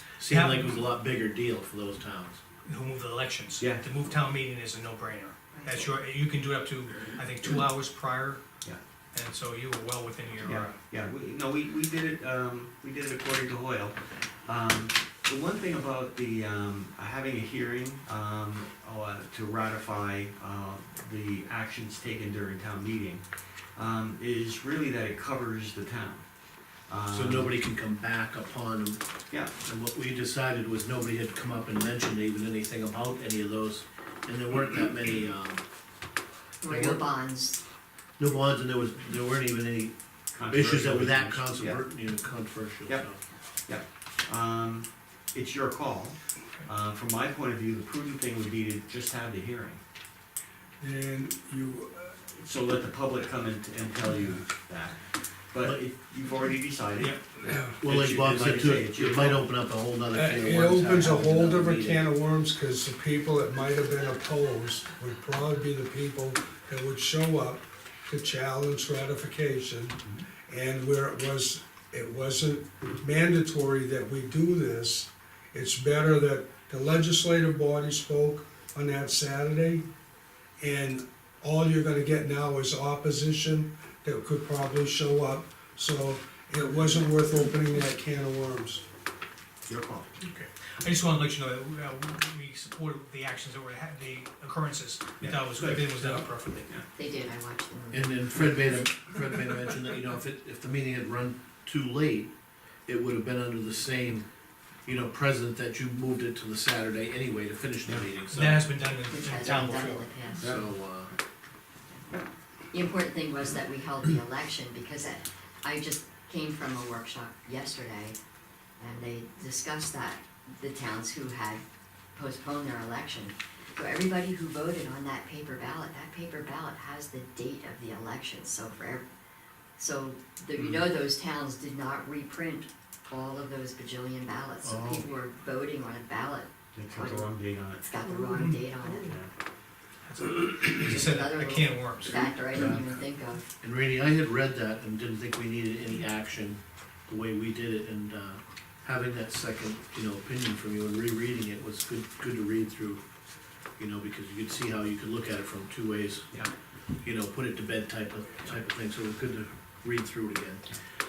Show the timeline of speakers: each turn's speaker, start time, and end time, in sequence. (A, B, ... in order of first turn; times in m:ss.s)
0:00.2-0:02.4 A
0:00.3-0:00.8 B
0:02.6-0:08.4 B
0:05.5-0:05.9 C
0:09.1-0:10.8 B
0:10.4-0:26.3 D
0:26.9-0:27.5 D
0:27.1-0:29.0 A
0:29.6-0:35.6 A
0:36.6-0:37.6 C
0:36.7-0:37.0 A
0:38.2-0:39.9 A
0:40.3-0:41.8 D
0:40.5-0:43.2 A
0:43.7-0:49.8 D
0:50.8-0:52.2 E
0:52.4-0:59.5 D
0:57.4-0:57.8 E
0:57.8-1:02.1 A
1:00.1-1:19.8 E
1:20.6-1:28.8 E
1:29.7-1:30.1 D
1:30.2-1:36.7 B
1:35.2-1:35.9 D
1:36.0-1:36.2 E
1:36.9-1:38.1 C
1:37.9-1:42.3 A
1:42.9-1:44.3 A
1:44.9-1:48.8 A
1:48.3-1:50.1 B
1:49.0-1:50.5 C
1:50.4-1:51.1 A
1:50.4-1:50.7 D
1:52.7-1:58.2 C
1:58.8-2:01.6 C
2:02.2-2:09.0 C
2:09.8-2:17.3 C
2:14.6-2:15.1 A
2:16.7-2:17.9 D
2:17.8-2:19.2 C
2:18.3-2:18.6 B
2:19.0-2:19.3 D
2:20.0-2:22.8 B
2:20.8-2:23.4 C
2:22.6-2:22.8 A
2:23.6-2:33.0 A
2:33.8-2:36.3 A
2:37.0-2:40.6 A